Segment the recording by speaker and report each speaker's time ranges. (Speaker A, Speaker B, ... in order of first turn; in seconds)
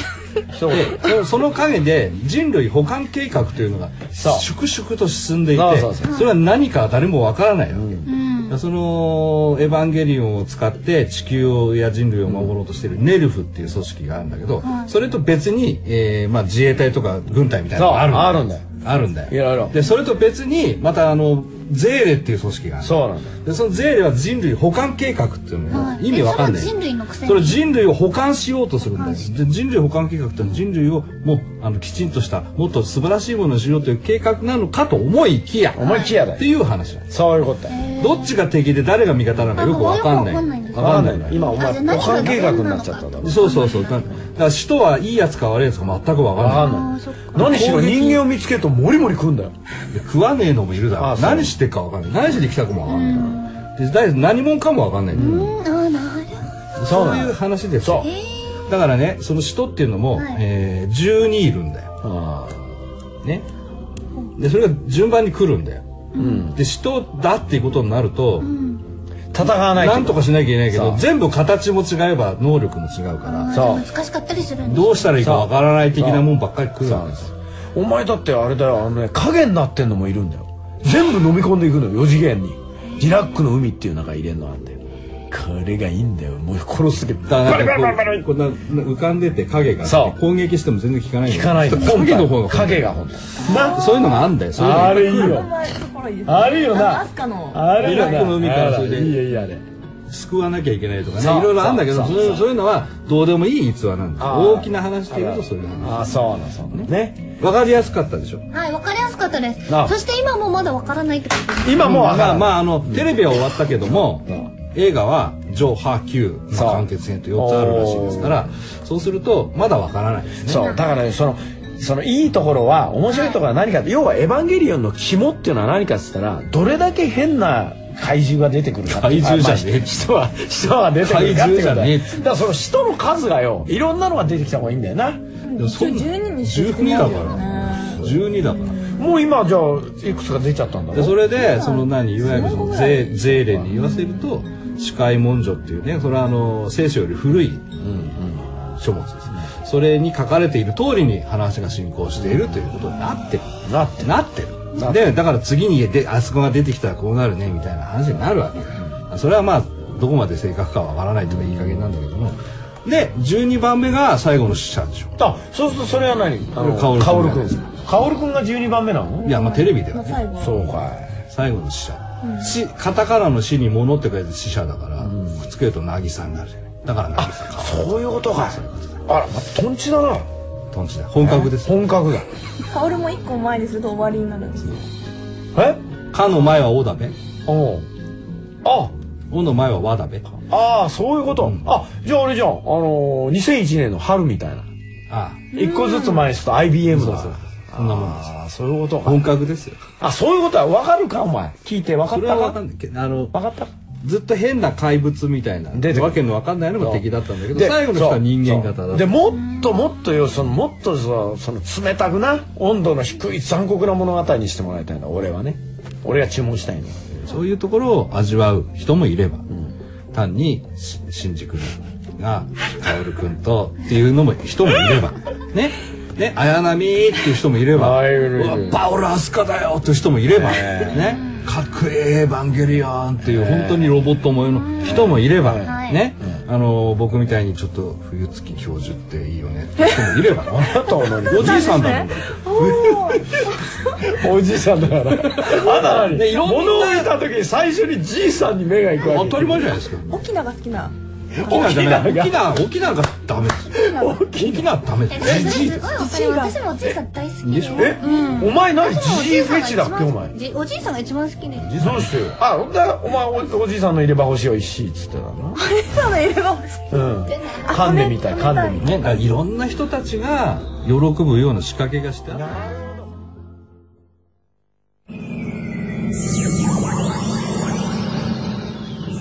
Speaker A: 0.5-1.1, 4.2-4.5, 5.5-6.2, 7.7-8.1, 12.3-12.5, 17.8-18.6, 19.3-19.8, 22.8-23.4, 35.8-36.5, 37.1-37.8, 40.7-43.4, 46.4-49.5, 51.0-51.6, 55.1-55.5, 56.8-58.1, 62.0-62.6, 66.2-66.6, 69.3-71.0, 73.5-73.9, 75.2-76.3, 76.8-84.8, 85.3-88.3, 89.8-90.2, 91.3-94.0, 94.5-95.5, 96.3-99.6, 101.2-102.4, 104.2-107.3, 109.7-110.0, 111.6-113.1, 116.5-118.5, 120.4-135.2, 139.0-141.2, 147.8-148.5, 153.6-154.2, 154.7-155.2, 165.2-169.3, 170.4-171.2, 175.0-175.4, 177.2-180.3, 181.2-182.3, 185.6-185.8, 187.5-187.9, 188.6-188.9, 190.5-194.7, 195.5-199.3, 200.0-202.6, 203.3-203.7, 205.7-206.2, 206.8-217.0, 227.7-228.8, 230.3-231.1, 233.2-234.0, 234.8-236.4, 240.5-241.8, 243.1-249.6, 251.3-252.5, 253.7-255.7, 257.8-260.4, 261.8-265.6, 266.9-269.1, 272.3-272.8
Speaker B: 0.7-37.1, 38.0-41.4, 43.2-46.8, 47.3-48.3, 49.9-55.6, 56.8-58.1, 58.7-61.9, 64.4-65.9, 66.5-68.5, 69.7-73.7, 74.6-77.3, 87.3-95.5, 97.8-99.2, 100.1-106.2, 107.4-108.5, 111.8-120.7, 128.9-130.1, 131.0-132.2, 135.6-138.8, 140.9-147.7, 148.8-165.2, 166.6-167.6, 169.2-179.0, 180.7-181.8, 186.1-187.2, 189.3-190.3, 191.4-191.7, 195.1-195.5, 196.9-198.3, 199.0-199.8, 202.1-203.3, 204.0-209.2, 217.1-219.5, 220.1-243.1, 245.3-247.2, 249.0-250.2, 251.4-255.9, 257.4-258.0, 261.6-262.2, 268.8-272.5
Speaker C: 8.1-8.6, 14.6-14.9, 25.7-27.6, 29.0-29.3, 37.7-38.4, 39.5-44.1, 46.5-47.5, 52.9-53.6, 55.1-56.5, 58.0-58.6, 60.1-60.4, 66.2-66.5, 68.4-68.8, 73.2-75.2, 108.5-112.0, 120.5-120.8, 123.1-123.4, 230.9-231.4, 235.6-236.1, 255.1-261.7
Speaker D: 93.4-97.7, 135.4-138.9, 141.3-143.7, 169.2-170.7, 172.2-172.5, 182.7-184.8, 195.6-196.2, 241.3-244.0, 250.1-251.0, 251.5-251.8, 253.8-254.2, 255.8-257.0, 265.6-266.9, 267.6-269.0